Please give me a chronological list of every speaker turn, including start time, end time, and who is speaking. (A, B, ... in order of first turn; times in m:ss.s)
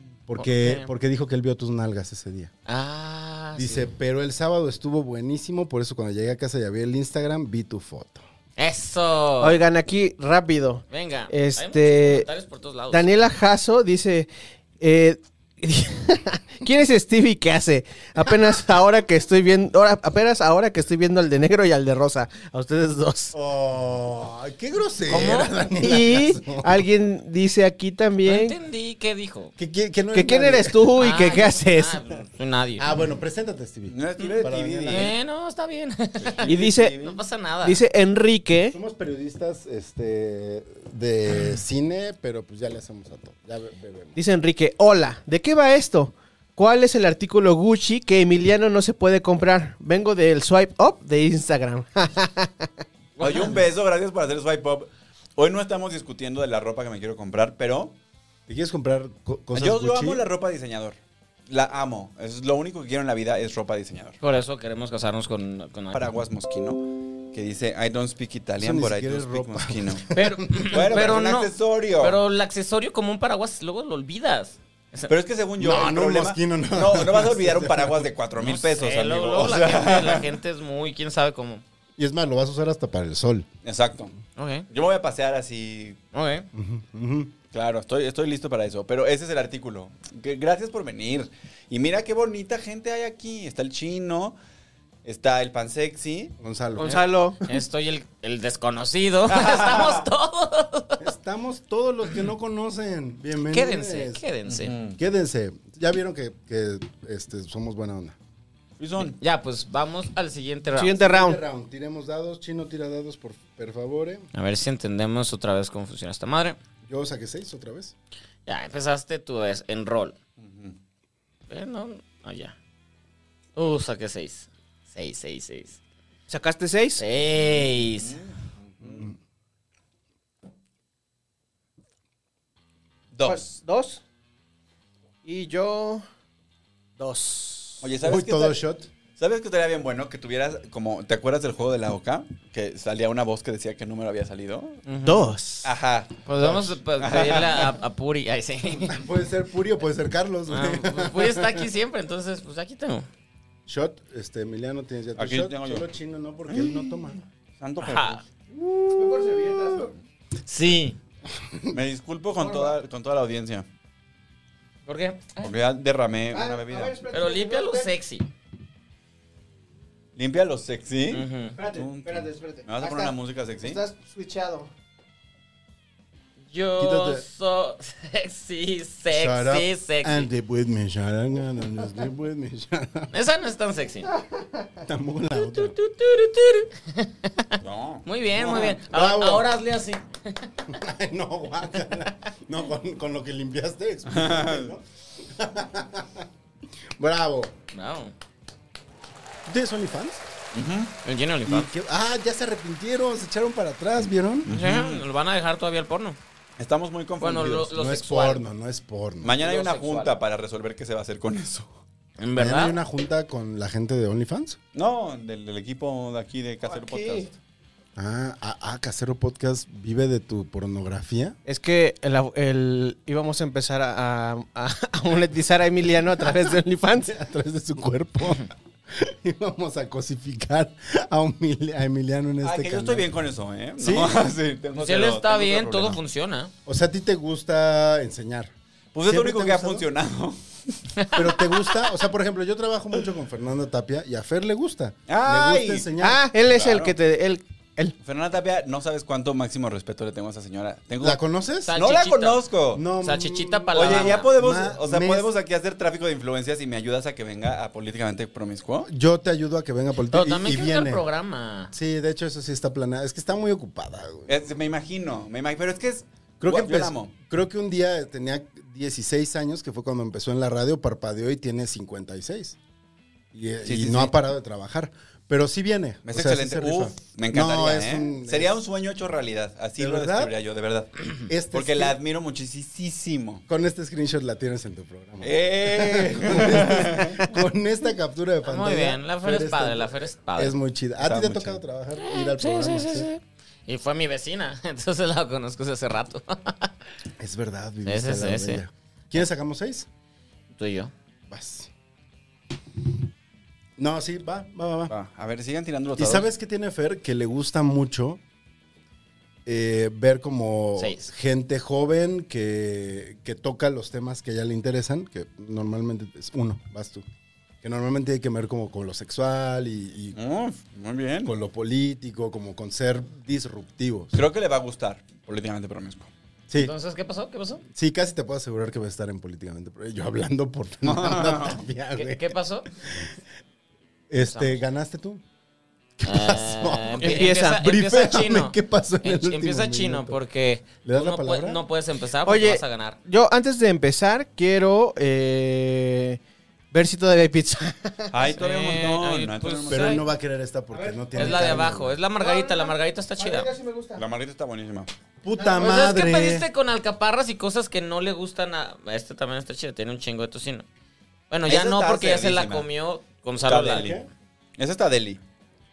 0:00.3-0:02.5 A
0:00.4-0:00.9 B
0:02.6-0:03.9 B
0:03.6-0:08.2 A
0:08.6-0:09.6 B
0:09.4-0:12.3 C
0:10.9-0:13.1 B
0:12.9-0:14.3 C
0:14.8-0:23.3 C
0:23.3-0:26.8 A
0:25.1-0:25.5 B
0:25.8-0:28.6 C
0:28.2-0:29.5 B
0:29.6-0:30.9 A
0:30.1-0:32.0 C
0:31.0-0:32.8 B
0:32.8-0:35.1 A
0:33.9-0:35.1 D
0:34.9-0:37.8 B
0:36.2-0:37.2 D
0:36.4-0:37.0 C
0:37.6-0:38.8 C
0:38.7-0:44.1 A
0:44.2-0:52.7 C
0:53.2-0:53.6 B
0:53.2-0:58.0 D
0:58.5-1:00.2 A
0:59.5-1:01.0 D
1:01.5-1:04.2 D
1:04.2-1:06.1 B
1:05.9-1:10.1 D
1:08.6-1:11.1 A
1:10.1-1:15.1 B
1:10.6-1:12.2 D
1:15.1-1:20.3 D
1:15.6-1:18.1 A
1:18.4-1:21.6 B
1:22.0-1:23.5 A
1:23.6-1:24.1 D
1:24.4-1:24.7 B
1:24.7-1:26.0 D
1:26.1-1:26.5 B
1:26.5-1:27.3 A
1:27.5-1:34.4 D
1:35.0-1:36.3 D
1:36.4-1:37.0 A
1:36.8-1:37.4 C
1:36.8-1:41.1 B
1:39.3-1:40.0 D
1:41.0-1:44.2 A
1:43.5-1:44.7 B
1:44.4-1:45.0 D
1:45.0-1:48.2 A
1:48.8-1:49.2 D
1:49.0-1:51.0 B
1:50.7-1:51.4 C
1:51.0-1:54.3 A
1:54.3-1:56.6 B
1:56.8-1:57.9 A
1:58.4-2:00.1 B
2:00.4-2:00.8 D
2:01.5-2:02.6 B
2:03.6-2:05.8 B
2:06.3-2:07.0 C
2:07.0-2:08.2 B
2:08.0-2:09.1 D
2:13.1-2:13.6 D
2:13.2-2:14.0 C
2:15.2-2:16.0 C
2:17.0-2:17.9 C
2:17.8-2:18.6 D
2:18.0-2:18.9 A
2:19.2-2:24.8 D
2:24.8-2:25.2 B
2:25.0-2:25.7 C
2:25.6-2:27.7 D
2:26.2-2:29.0 B
2:28.8-2:31.7 A
2:30.5-2:33.1 B
2:33.7-2:37.2 A
2:35.2-2:35.9 D
2:36.5-2:36.9 D
2:37.6-2:38.2 D
2:37.8-2:39.3 B
2:38.9-2:39.9 C
2:40.4-2:41.0 B
2:41.4-2:41.8 A
2:41.7-2:43.6 D
2:42.4-2:42.7 C
2:44.8-2:45.4 B
2:45.4-2:47.0 D
2:46.3-2:47.9 C
2:47.1-2:48.3 B
2:50.2-2:53.8 D
2:51.1-2:51.6 B
2:51.6-2:54.7 C
2:56.5-3:00.3 B
2:56.8-2:57.2 A
2:59.1-3:03.1 A
3:03.1-3:04.1 B
3:04.4-3:04.6 C
3:04.8-3:05.7 A
3:05.3-3:10.5 B
3:07.6-3:08.0 D
3:08.3-3:09.5 A
3:10.6-3:16.3 A
3:14.1-3:14.7 D
3:17.0-3:17.5 A
3:17.7-3:18.1 B
3:19.4-3:20.2 A
3:20.5-3:20.9 D
3:21.0-3:21.7 B
3:21.4-3:24.5 A
3:24.4-3:25.0 D
3:24.5-3:26.2 B
3:26.6-3:27.7 D
3:27.2-3:28.4 B
3:27.7-3:29.4 A
3:29.2-3:31.7 D
3:29.4-3:30.1 B
3:32.2-3:32.8 B
3:32.4-3:34.6 A
3:34.7-3:37.4 D
3:36.6-3:37.3 C
3:38.0-3:41.4 A
3:41.4-3:47.1 C
3:47.0-3:53.0 A
3:52.4-3:56.0 D
3:53.8-3:54.2 A
3:54.7-3:56.5 B
3:56.6-3:58.5 A
3:58.9-4:00.9 D
3:59.0-3:59.8 A
4:01.1-4:06.2 A
4:05.1-4:05.9 D
4:06.0-4:07.9 C
4:06.5-4:07.0 D
4:08.0-4:11.2 D
4:11.0-4:11.7 A
4:11.6-4:12.4 B
4:11.7-4:12.8 D
4:12.7-4:15.3 A
4:13.0-4:14.3 B
4:13.7-4:18.9 D
4:18.8-4:21.0 A
4:20.1-4:21.7 B
4:21.7-4:24.4 A
4:24.3-4:27.1 D
4:26.4-4:32.6 A
4:33.3-4:38.6 A
4:33.6-4:34.1 D
4:36.0-4:43.4 D
4:39.8-4:40.3 A
4:41.3-4:42.0 A
4:43.5-4:53.1 A
4:45.2-4:47.3 D
4:48.4-4:50.6 B
4:51.0-4:51.6 D
4:52.0-4:56.7 B
4:57.2-4:59.9 A
4:57.8-4:58.6 B
5:00.5-5:00.9 B
5:01.3-5:01.7 A
5:03.8-5:04.9 A
5:04.9-5:06.2 D
5:06.0-5:08.2 A
5:09.4-5:17.0 A
5:10.8-5:11.0 B
5:17.6-5:20.2 A
5:20.1-5:21.3 D
5:21.2-5:24.1 A
5:24.1-5:26.1 D
5:26.6-5:27.6 B
5:27.7-5:33.1 A
5:30.8-5:31.6 D
5:32.0-5:32.7 B
5:34.1-5:35.2 A
5:34.2-5:34.6 B
5:36.0-5:40.2 A
5:36.0-5:43.0 B
5:37.0-5:37.6 C
5:40.8-5:41.6 A
5:42.2-5:46.2 C
5:46.7-5:48.1 C
5:48.1-5:50.0 D
5:48.4-5:50.0 B
5:49.7-5:52.0 A
5:50.7-5:54.0 C
5:51.1-5:53.5 B
5:54.0-5:54.9 D
5:55.2-5:56.4 A
5:55.3-5:55.7 C
5:55.6-6:00.6 B
6:01.3-6:03.9 B
6:01.5-6:02.6 D
6:03.4-6:04.0 D
6:03.6-6:04.1 A
6:04.6-6:05.2 D